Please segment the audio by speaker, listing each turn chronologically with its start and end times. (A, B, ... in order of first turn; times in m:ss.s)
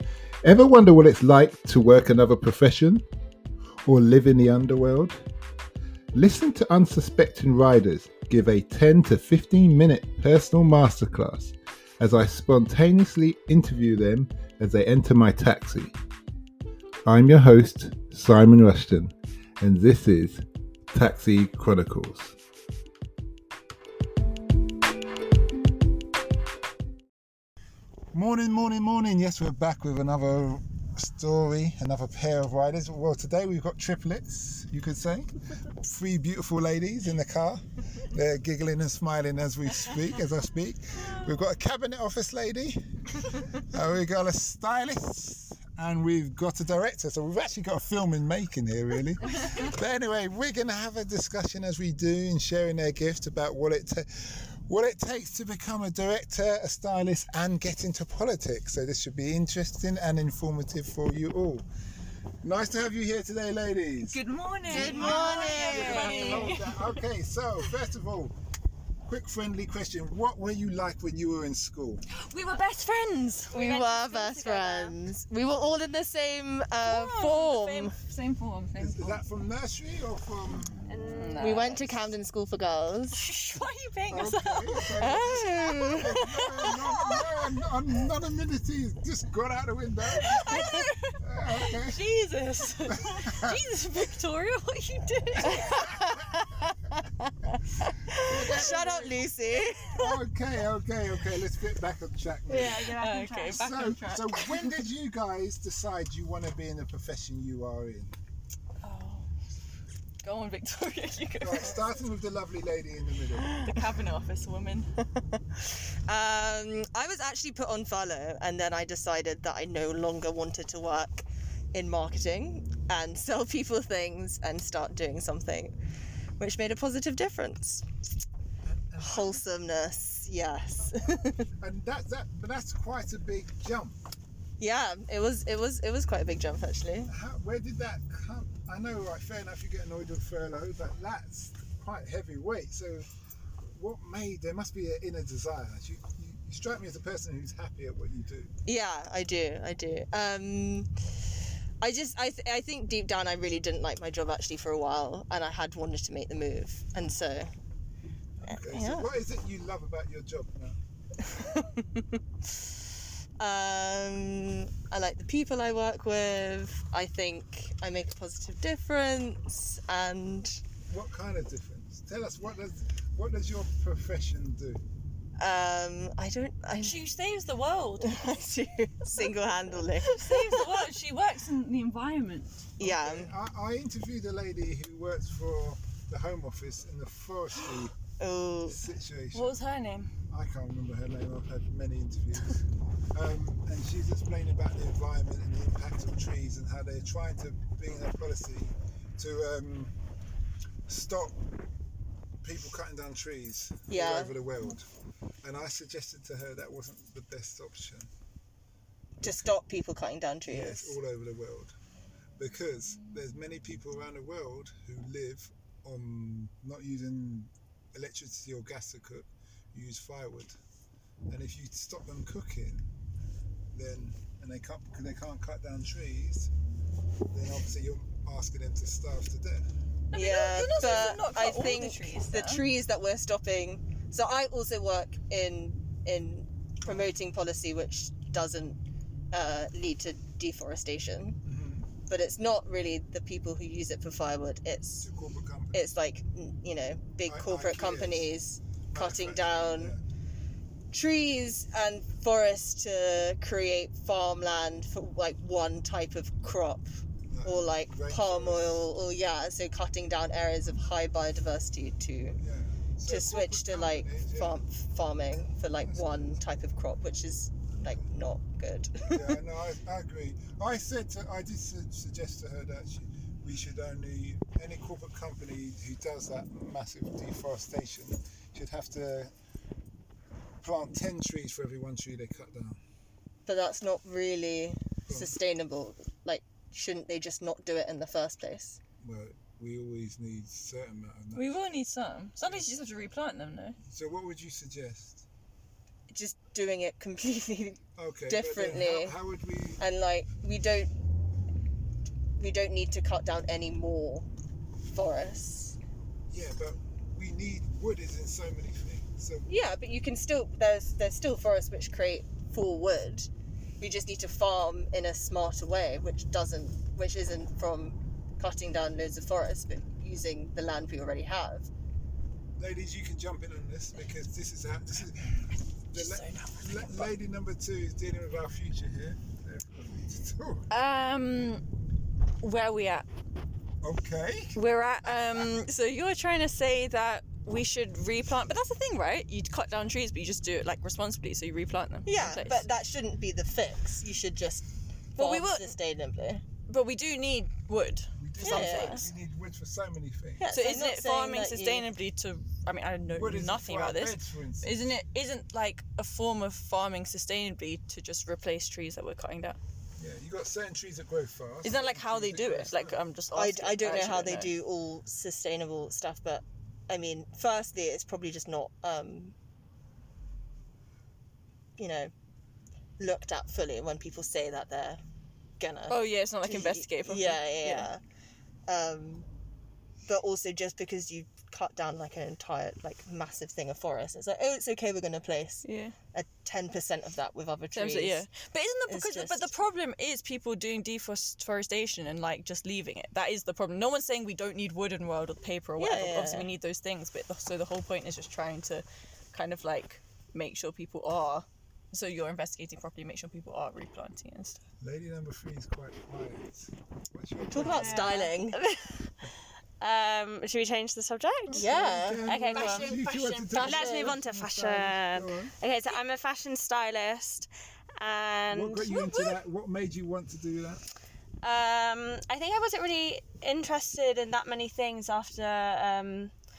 0:00.4-0:03.0 A
0:03.8-0:05.2 A
0:06.1-0:16.0 A
0:17.0-0:22.4 A
0:28.1-0:42.8 A
0:43.7-1:01.6 A
1:02.4-1:08.3 A
1:04.1-1:06.9 B
1:04.7-1:06.4 C
1:04.9-1:06.5 D
1:09.0-1:12.0 A
1:12.1-1:14.2 B
1:13.5-1:18.0 C
1:13.6-1:14.9 D
1:16.8-1:19.2 B
1:18.8-1:20.8 A
1:20.6-1:22.0 B
1:20.9-1:21.8 D
1:21.4-1:23.2 C
1:23.1-1:27.5 B
1:24.1-1:32.0 A
1:24.9-1:26.7 C
1:30.1-1:36.0 B
1:32.9-1:33.6 A
1:35.4-1:40.2 C
1:38.2-1:39.2 A
1:39.9-1:42.9 A
1:42.5-1:43.7 D
1:42.8-1:44.8 B
1:43.5-1:48.1 A
1:48.8-1:49.3 B
1:50.2-1:51.8 B
1:51.4-1:53.6 A
1:53.5-1:54.9 B
1:55.3-2:05.7 C
2:06.4-2:07.8 C
2:08.6-2:09.5 A
2:09.0-2:11.5 C
2:11.6-2:14.0 A
2:14.6-2:17.1 C
2:17.1-2:23.1 A
2:23.7-2:28.5 A
2:28.7-2:30.9 C
2:31.8-2:37.5 C
2:38.4-2:40.8 A
2:38.5-2:39.1 C
2:41.3-2:42.0 C
2:43.4-2:50.6 C
2:50.9-2:54.8 A
2:55.4-2:57.0 C
2:56.8-2:58.1 B
2:58.0-3:00.8 C
2:59.1-3:02.6 B
3:02.8-3:03.3 C
3:02.8-3:07.9 A
3:08.2-3:08.8 C
3:08.7-3:09.6 A
3:09.3-3:10.1 B
3:10.3-3:12.6 A
3:13.1-3:19.9 A
3:20.9-3:21.4 A
3:22.4-3:24.9 A
3:23.9-3:24.4 C
3:25.4-3:28.1 A
3:29.2-3:31.0 C
3:29.2-3:29.5 A
3:30.5-3:31.8 A
3:32.4-3:40.6 A
3:41.3-3:42.9 A
3:43.7-3:46.5 A
3:47.3-3:49.7 A
3:50.1-3:52.6 B
3:50.1-3:58.8 C
3:59.3-4:01.4 C
4:01.4-4:01.9 A
4:02.1-4:05.1 C
4:05.0-4:05.9 A
4:05.7-4:10.0 C
4:07.3-4:08.3 A
4:08.9-4:10.0 A
4:10.9-4:16.9 C
4:17.3-4:18.9 A
4:17.4-4:22.4 C
4:22.4-4:24.6 A
4:23.1-4:29.4 C
4:25.8-4:26.4 A
4:27.8-4:28.1 A
4:29.1-4:39.3 A
4:40.6-4:42.8 A
4:43.4-4:48.8 C
4:45.1-4:45.3 A
4:49.0-4:51.6 A
4:51.4-4:53.8 B
4:52.4-4:52.8 A
4:53.9-4:55.2 A
4:56.1-4:59.2 C
4:58.0-4:59.8 A
4:59.8-5:00.9 C
5:02.4-5:04.3 C
5:04.9-5:05.8 C
5:06.3-5:09.5 A
5:09.5-5:13.3 C
5:13.8-5:21.7 C
5:22.6-5:30.7 A
5:25.9-5:27.1 B
5:30.7-5:31.6 B
5:32.4-5:33.1 B
5:33.8-5:35.5 A
5:34.6-5:42.7 B
5:42.0-5:46.4 C
5:45.2-5:45.8 B
5:46.7-5:49.1 B
5:48.2-5:50.4 A
5:48.4-5:49.1 C
5:50.4-5:51.9 C
5:50.5-5:59.6 B
5:53.1-5:54.9 A
6:00.0-6:03.0 A
6:01.6-6:04.6 B
6:03.3-6:09.3 C
6:11.8-6:12.1 C
6:13.0-6:15.0 C
6:15.6-6:18.0 C
6:15.9-6:17.9 B
6:18.7-6:19.2 C
6:20.0-6:28.2 C
6:25.6-6:25.9 B
6:27.7-6:44.6 B
6:28.9-6:29.5 C
6:35.8-6:36.5 C
6:44.8-6:48.2 A
6:47.5-6:48.6 C
6:47.6-6:49.1 D
6:49.8-6:51.7 D
6:51.5-6:55.5 A
6:51.6-6:52.3 C
6:52.2-6:52.9 D
6:52.5-6:53.8 B
6:53.5-6:54.2 C
6:53.6-6:59.4 D
6:58.5-7:00.8 A
7:01.4-7:06.3 D